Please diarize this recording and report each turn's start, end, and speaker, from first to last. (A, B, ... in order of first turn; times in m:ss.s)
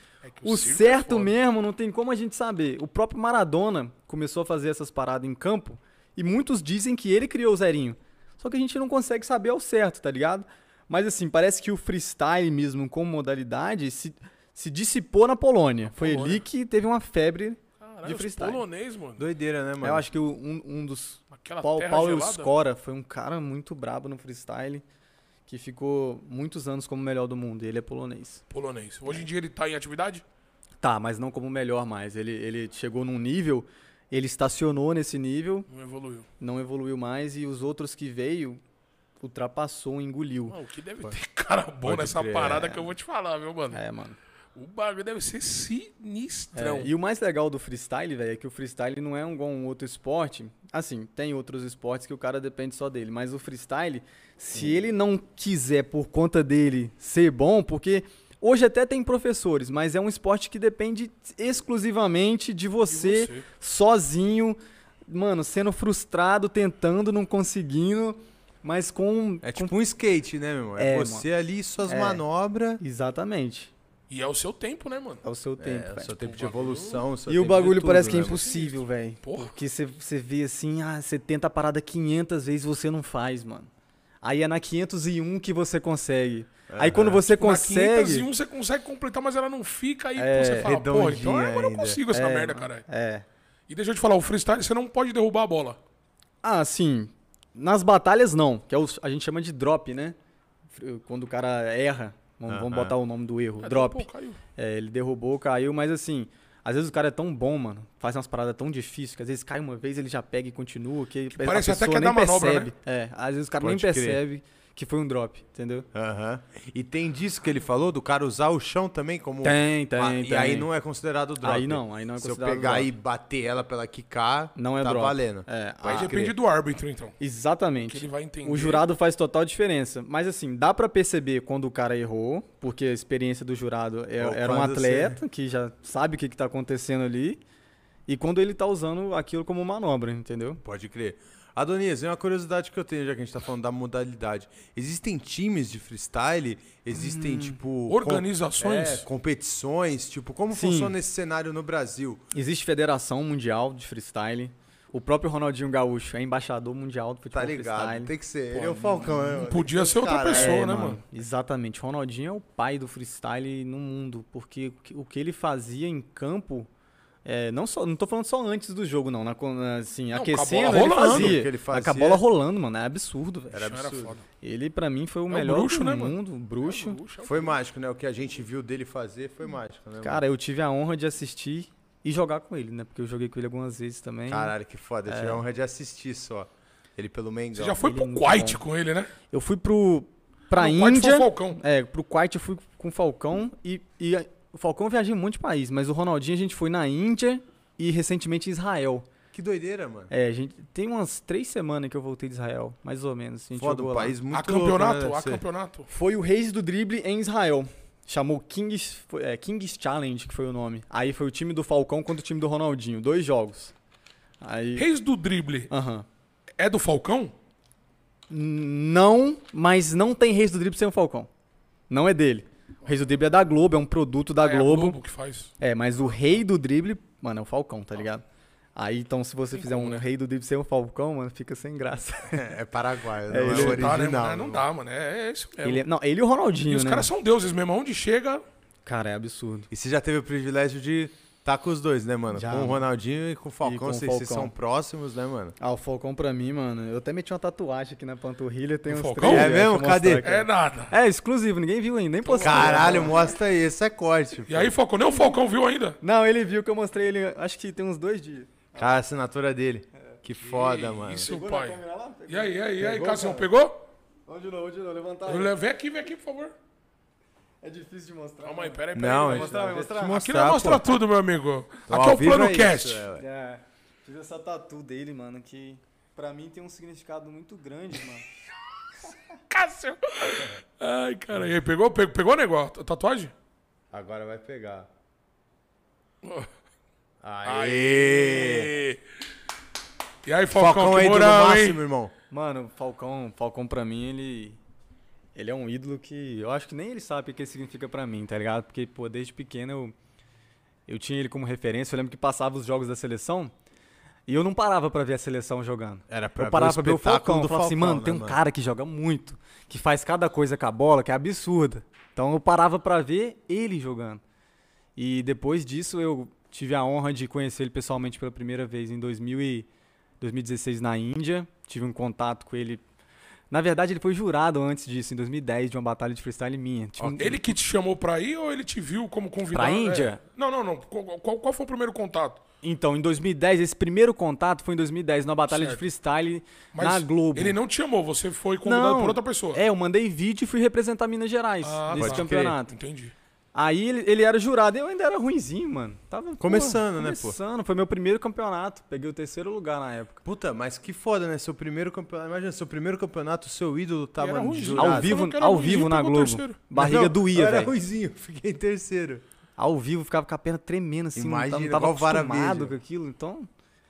0:00.3-0:01.3 A
0:00.4-0:18.6 B
0:15.9-0:16.4 A
0:17.8-0:19.2 A
0:19.2-0:20.0 C
0:19.8-0:24.8 B
0:21.3-0:22.5 A
0:25.5-0:28.4 B
0:28.5-0:30.2 A
0:30.8-0:35.7 B
0:35.7-0:36.3 A
0:36.4-0:38.6 B
0:39.2-0:40.6 B
0:40.5-0:43.8 A
0:41.8-0:42.8 C
0:42.6-0:42.8 B
0:43.7-0:44.2 B
0:44.5-0:46.9 A
0:46.5-1:09.7 B
1:02.9-1:03.4 A
1:09.4-1:12.8 C
1:10.8-1:11.2 B
1:11.9-1:12.2 B
1:12.8-1:13.7 B
1:14.1-1:15.2 A
1:15.2-1:16.2 B
1:15.6-1:18.4 C
1:16.2-1:17.0 A
1:17.3-1:23.7 B
1:17.6-1:19.5 A
1:24.2-1:28.3 B
1:26.7-1:27.2 C
1:27.3-1:32.8 A
1:30.2-1:30.7 B
1:30.6-1:32.0 C
1:32.1-1:33.2 B
1:33.7-1:35.8 A
1:36.4-1:40.2 B
1:40.7-1:55.9 B
1:42.5-1:42.9 C
1:43.6-1:44.4 A
1:51.3-1:52.7 A
1:53.6-1:54.2 C
1:55.9-2:06.3 C
1:59.4-2:00.7 B
2:01.4-2:02.9 B
2:04.6-2:06.2 B
2:05.8-2:07.2 A
2:07.2-2:17.4 B
2:07.8-2:08.8 A
2:14.2-2:15.2 C
2:18.1-2:20.6 B
2:20.6-2:32.2 C
2:26.9-2:27.6 B
2:27.9-2:29.0 A
2:30.5-2:30.9 B
2:32.3-2:39.2 B
2:37.3-2:40.7 C
2:39.2-2:41.0 A
2:40.3-2:46.7 B
2:47.2-2:53.7 B
2:50.1-2:51.4 A
2:50.6-2:52.2 C
2:53.5-2:54.2 C
2:53.6-2:54.2 A
2:54.4-2:57.0 B
2:55.3-2:57.6 A
2:57.2-3:00.2 C
3:00.0-3:04.5 B
3:04.3-3:07.8 C
3:05.1-3:05.4 B
3:07.6-3:09.1 A
3:07.8-3:08.6 B
3:09.3-3:19.0 B
3:10.5-3:11.6 A
3:19.3-3:20.1 C
3:20.1-3:24.2 B
3:23.6-3:25.4 C
3:24.3-3:25.9 A
3:25.9-3:33.7 B
3:34.4-3:34.9 B
3:34.8-3:35.7 A
3:35.7-3:36.0 B
3:36.6-3:37.3 A
3:38.3-3:41.3 B
3:41.9-3:45.0 B
3:44.4-3:45.5 A
3:45.6-3:48.2 B
3:48.8-3:52.5 B
3:49.5-3:50.0 A
3:52.3-3:54.6 C
3:53.3-3:53.9 B
3:53.4-3:55.8 A
3:55.6-3:57.1 B
3:56.7-3:58.4 A
3:58.8-3:59.7 B
3:59.7-4:05.6 C
4:02.3-4:02.9 B
4:03.6-4:04.5 B
4:05.6-4:13.3 B
4:08.9-4:09.6 A
4:09.2-4:10.3 C
4:10.2-4:10.9 A
4:12.2-4:13.1 A
4:12.4-4:14.7 C
4:14.5-4:16.0 A
4:15.1-4:15.4 B
4:16.0-4:19.0 B
4:18.8-4:21.3 C
4:20.4-4:23.9 A
4:21.2-4:23.5 B
4:24.3-4:25.5 B
4:25.2-4:26.5 A
4:27.6-4:30.3 B
4:28.4-4:33.0 A
4:28.9-4:31.0 C
4:31.9-4:33.2 C
4:33.2-4:38.2 B
4:39.5-4:43.3 A
4:43.9-4:44.9 C
4:46.2-4:46.5 A
4:47.2-4:48.8 C
4:47.4-4:49.0 A
4:50.2-4:51.8 A
4:50.5-4:52.1 C
4:52.3-4:54.6 B
4:55.3-4:59.9 B
5:00.9-5:03.5 B
5:04.3-5:14.2 B
5:06.1-5:08.4 C
5:15.0-5:19.7 B
5:20.2-5:22.8 B
5:23.5-5:27.5 B
5:27.0-5:27.3 C
5:27.2-5:32.4 A
5:29.5-5:30.2 B
5:32.6-5:37.6 B
5:35.5-5:35.8 A
5:36.7-5:39.6 A
5:38.6-5:42.7 B
5:41.6-5:43.1 A
5:42.0-5:42.5 C
5:43.5-5:50.2 B
5:46.4-5:47.4 C
5:50.2-5:55.2 C
5:54.2-5:56.6 A
5:54.8-5:57.7 B
5:56.7-5:59.2 C
5:59.6-6:03.5 B
6:01.1-6:02.7 C